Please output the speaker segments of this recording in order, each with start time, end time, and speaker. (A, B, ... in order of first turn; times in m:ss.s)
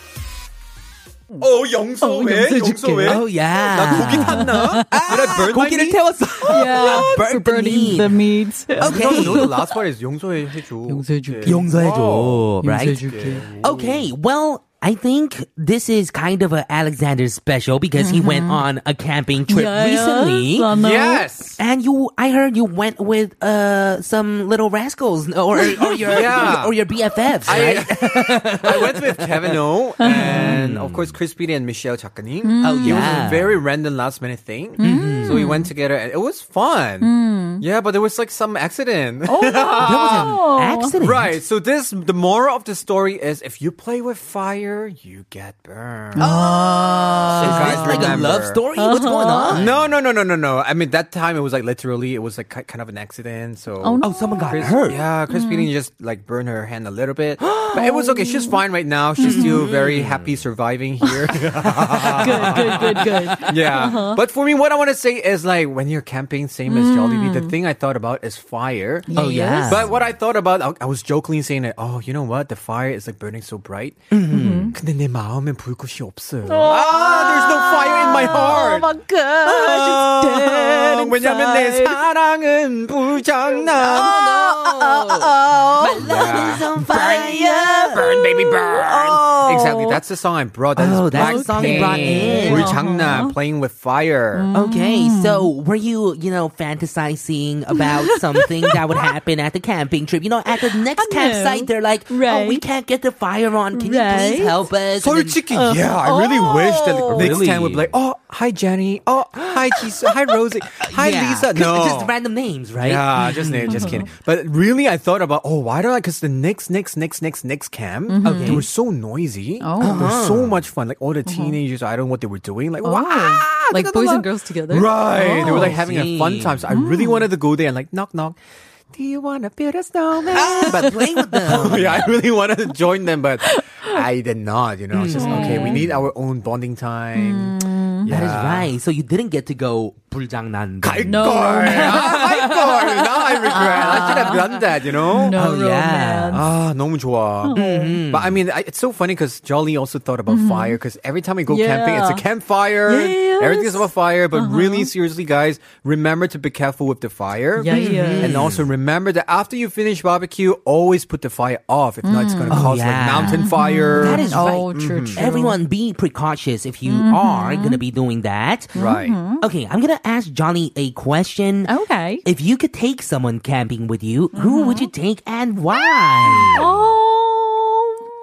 0:01.4-0:07.2 A
0:02.0-0:03.2 B
0:03.0-0:08.2 C
0:03.8-0:05.3 B
0:06.4-0:09.7 B
0:08.8-0:09.5 C
0:08.8-0:14.0 A
0:10.9-0:11.7 B
0:11.4-0:13.0 C
0:12.6-0:13.5 B
0:13.6-0:20.7 C
0:18.0-0:18.6 B
0:19.5-0:21.3 B
0:20.7-0:21.6 A
0:21.6-0:31.1 C
0:25.7-0:26.0 B
0:26.0-0:26.8 A
0:27.4-0:40.3 A
0:30.0-0:30.6 B
0:32.4-0:33.3 B
0:32.6-0:33.6 C
0:34.8-0:35.7 B
0:34.8-0:35.4 C
0:37.0-0:37.6 B
0:39.3-0:40.9 B
0:39.8-0:41.4 C
0:41.0-0:46.3 A
0:46.2-0:48.2 B
0:46.2-0:49.8 C
0:47.4-0:48.6 A
0:48.8-0:49.6 B
0:49.5-1:09.1 A
0:53.8-0:54.7 B
0:54.0-0:55.0 C
0:55.3-0:55.7 B
0:57.4-0:57.8 C
0:57.7-0:58.6 B
0:59.2-0:59.7 B
0:59.2-1:00.4 C
1:01.6-1:03.3 C
1:01.8-1:04.2 B
1:06.7-1:07.5 B
1:09.1-1:09.9 B
1:09.1-1:09.9 C
1:09.6-1:14.1 A
1:14.1-1:14.7 C
1:14.3-1:14.7 B
1:14.7-1:18.9 A
1:16.4-1:22.0 B
1:19.4-1:24.2 A
1:23.8-1:28.0 C
1:23.9-1:30.0 B
1:26.0-1:27.4 A
1:27.9-1:34.5 A
1:30.8-1:32.8 C
1:31.1-1:33.4 B
1:34.3-1:35.5 B
1:34.5-1:45.4 C
1:37.8-1:39.0 B
1:40.7-1:42.6 B
1:43.7-1:44.7 B
1:45.0-1:52.1 A
1:45.5-1:47.4 B
1:47.1-1:47.9 C
1:50.7-1:54.0 C
1:52.8-2:08.4 A
1:53.6-1:54.0 B
1:58.1-1:58.7 B
1:58.2-1:58.6 C
1:59.6-2:00.2 B
1:59.8-2:00.6 C
2:01.2-2:01.6 B
2:02.8-2:05.8 B
2:05.3-2:06.6 C
2:06.7-2:07.3 B
2:08.9-2:18.7 A
2:10.3-2:12.1 C
2:10.3-2:10.8 B
2:13.4-2:14.0 B
2:14.9-2:15.9 C
2:15.1-2:15.9 B
2:17.1-2:18.1 B
2:18.0-2:24.4 C
2:20.8-2:25.4 A
2:21.1-2:26.4 B
2:25.3-2:26.4 C
2:26.3-2:27.6 A
2:27.4-2:28.0 B
2:27.5-2:28.4 C
2:28.1-2:45.2 A
2:30.3-2:30.8 B
2:31.5-2:32.2 B
2:32.8-2:34.9 B
2:37.6-2:38.4 B
2:37.7-2:38.7 C
2:42.0-2:45.6 B
2:42.5-2:48.7 C
2:46.8-2:47.8 B
2:48.7-2:49.2 A
2:48.7-2:49.4 B
2:49.4-2:51.7 C
2:51.7-2:52.2 B
2:52.2-2:56.6 C
2:54.3-2:54.9 B
2:55.7-2:58.0 B